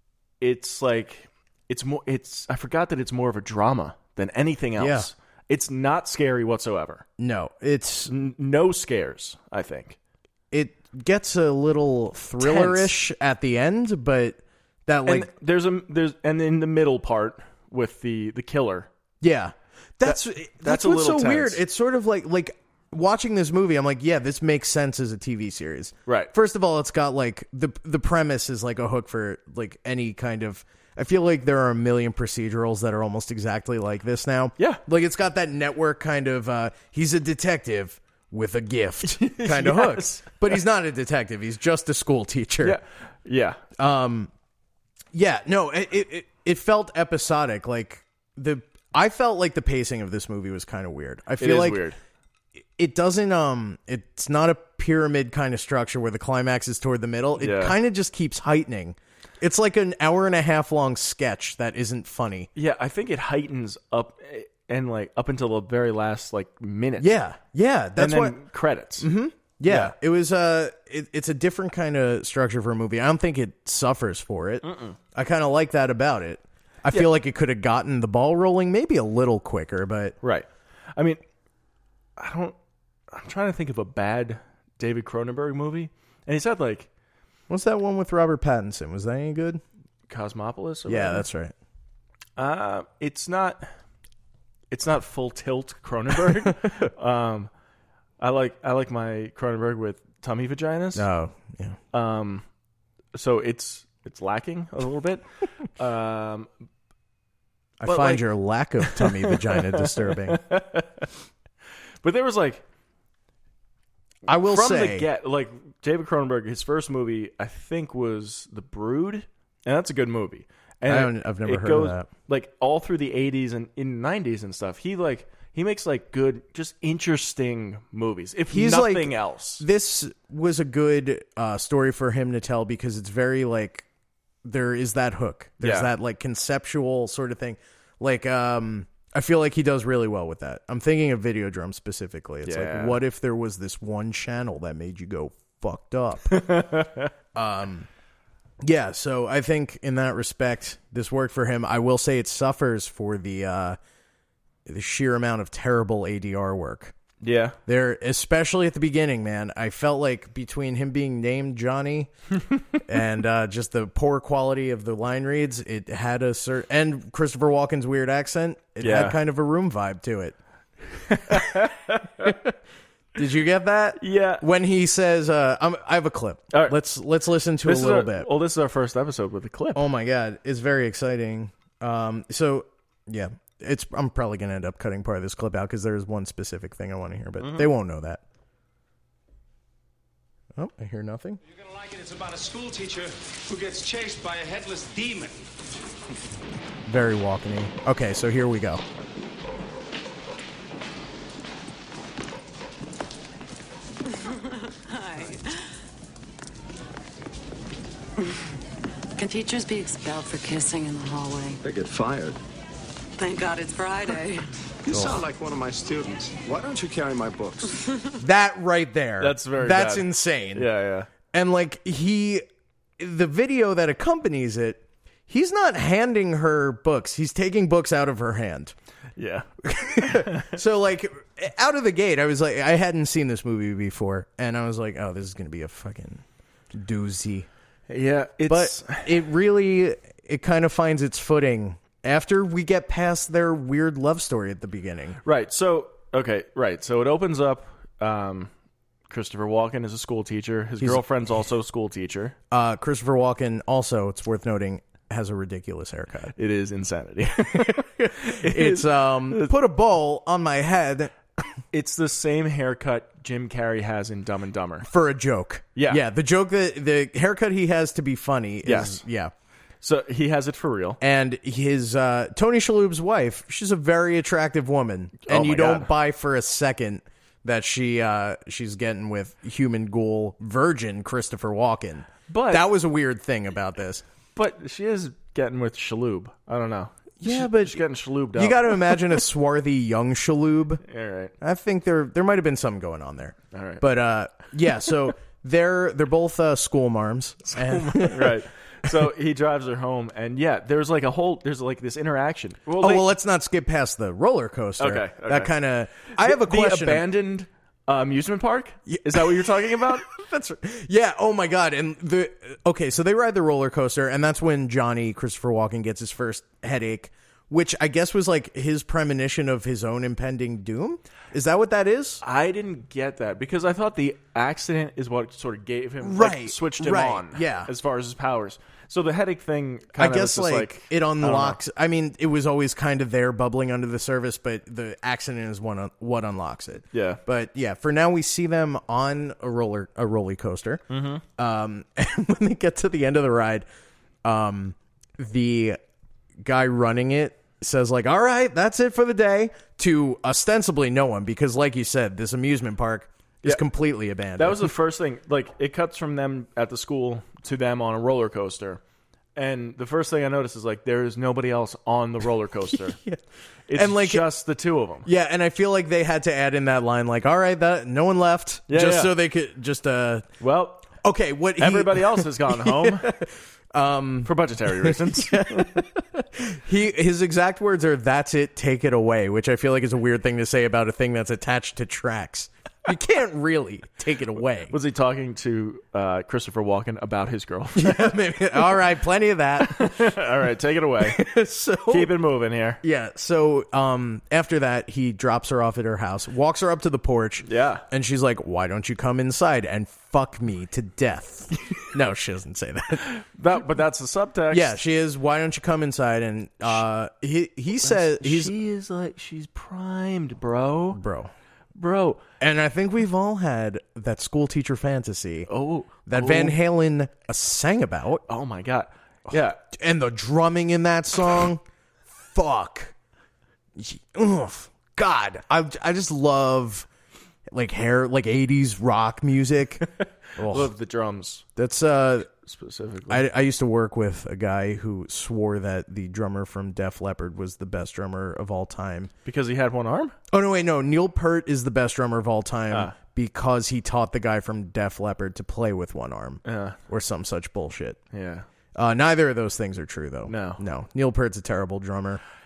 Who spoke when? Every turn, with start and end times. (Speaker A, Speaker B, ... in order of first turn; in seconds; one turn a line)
Speaker A: 0.4-7.0
Speaker B: 4.8-5.1
Speaker B: 7.2-8.1
Speaker A: 8.1-10.0
Speaker B: 10.5-15.3
Speaker A: 12.4-13.0
Speaker A: 15.1-18.9
Speaker B: 19.2-42.8
Speaker A: 20.1-21.6
Speaker A: 26.1-26.3
Speaker A: 39.0-40.4
Speaker A: 42.6-43.6
Speaker B: 43.8-44.3
Speaker B: 45.1-51.8
Speaker A: 51.4-52.0
Speaker B: 52.8-62.5
Speaker A: 57.4-57.8
Speaker A: 62.5-67.2
Speaker B: 67.0-68.4
Speaker A: 68.0-69.1
Speaker B: 69.0-80.2
Speaker A: 69.7-69.9
Speaker A: 74.6-75.0
Speaker A: 80.2-81.2
Speaker A: 82.2-82.5
Speaker A: 83.1-86.9
Speaker B: 87.5-89.6
Speaker A: 90.1-91.2
Speaker B: 90.9-91.5
Speaker A: 92.4-93.7
Speaker A: 94.7-97.5
Speaker A: 98.2-101.0
Speaker B: 100.9-101.8
Speaker A: 101.9-102.4
Speaker A: 103.1-106.5
Speaker B: 107.8-110.4
Speaker A: 107.8-108.2
Speaker A: 108.8-111.1
Speaker A: 112.0-112.6
Speaker B: 114.2-115.1
Speaker A: 114.3-129.6
Speaker B: 120.9-122.1
Speaker B: 128.5-133.8
Speaker B: 134.4-146.4
Speaker A: 135.6-135.9
Speaker A: 142.4-143.0
Speaker A: 146.3-147.1
Speaker B: 147.3-147.9
Speaker B: 148.6-153.8
Speaker B: 154.7-156.9
Speaker A: 157.2-157.6
Speaker B: 157.7-162.1
Speaker B: 162.8-170.3
Speaker A: 168.8-169.2
Speaker A: 171.1-172.4
Speaker B: 172.2-172.5
Speaker B: 173.2-178.3
Speaker A: 174.0-174.4
Speaker A: 177.6-179.8
Speaker B: 179.7-188.2
Speaker A: 187.4-187.7
Speaker B: 190.6-191.4
Speaker C: 191.4-195.4
Speaker B: 196.9-198.8
Speaker D: 204.1-205.5
Speaker D: 209.2-211.6
Speaker E: 211.6-212.4
Speaker D: 213.2-214.5
Speaker E: 214.8-217.8
Speaker B: 214.9-215.2
Speaker B: 218.2-220.7
Speaker A: 219.2-221.1
Speaker B: 221.3-222.4
Speaker B: 223.0-228.7
Speaker A: 229.2-230.5
Speaker B: 229.7-237.5
Speaker A: 237.9-239.1
Speaker B: 238.5-245.2
Speaker A: 245.2-248.5
Speaker A: 249.1-252.3
Speaker B: 252.5-256.3
Speaker A: 256.4-259.5
Speaker B: 257.5-261.1
Speaker A: 261.7-264.9
Speaker B: 264.8-269.3
Speaker A: 265.7-266.0
Speaker A: 268.6-269.0
Speaker A: 269.8-271.0
Speaker B: 271.0-284.0
Speaker A: 275.2-275.9
Speaker A: 282.3-282.7
Speaker A: 284.3-289.0
Speaker B: 287.2-287.8
Speaker B: 288.3-290.8
Speaker A: 290.9-291.3
Speaker B: 291.4-298.4
Speaker A: 293.5-293.9
Speaker A: 297.5-303.1
Speaker B: 302.8-307.1
Speaker A: 304.8-310.0
Speaker B: 308.9-322.2
Speaker A: 322.2-331.6
Speaker B: 326.0-327.7
Speaker B: 330.0-340.8
Speaker A: 336.9-337.2
Speaker A: 340.9-341.2
Speaker B: 341.4-343.6
Speaker B: 344.2-345.8
Speaker B: 346.4-354.7
Speaker A: 354.4-358.8
Speaker A: 359.4-363.0
Speaker B: 362.9-363.2
Speaker A: 363.7-365.1
Speaker B: 363.7-364.3
Speaker B: 365.0-370.3
Speaker A: 368.7-369.1
Speaker A: 370.4-370.9
Speaker B: 370.9-384.7
Speaker A: 371.6-373.1
Speaker A: 374.2-375.9
Speaker A: 384.7-388.6
Speaker B: 387.8-390.1
Speaker A: 389.6-391.2
Speaker B: 391.0-392.1
Speaker A: 391.9-392.8
Speaker B: 392.8-403.1
Speaker A: 397.4-397.8
Speaker A: 403.1-404.8
Speaker B: 404.5-408.5
Speaker A: 407.8-411.0
Speaker B: 410.9-411.3
Speaker A: 411.7-412.2
Speaker B: 412.4-415.5
Speaker A: 415.5-416.6
Speaker B: 416.1-418.2
Speaker A: 418.3-419.6
Speaker B: 419.3-422.9
Speaker B: 423.8-426.9
Speaker B: 427.5-429.9
Speaker B: 430.4-430.7
Speaker A: 430.4-431.4
Speaker B: 431.6-432.3
Speaker A: 432.4-433.2
Speaker B: 433.1-439.1
Speaker A: 439.2-440.1
Speaker B: 440.3-448.0
Speaker A: 446.4-446.8
Speaker A: 448.1-448.4
Speaker B: 448.7-452.2
Speaker A: 450.3-450.6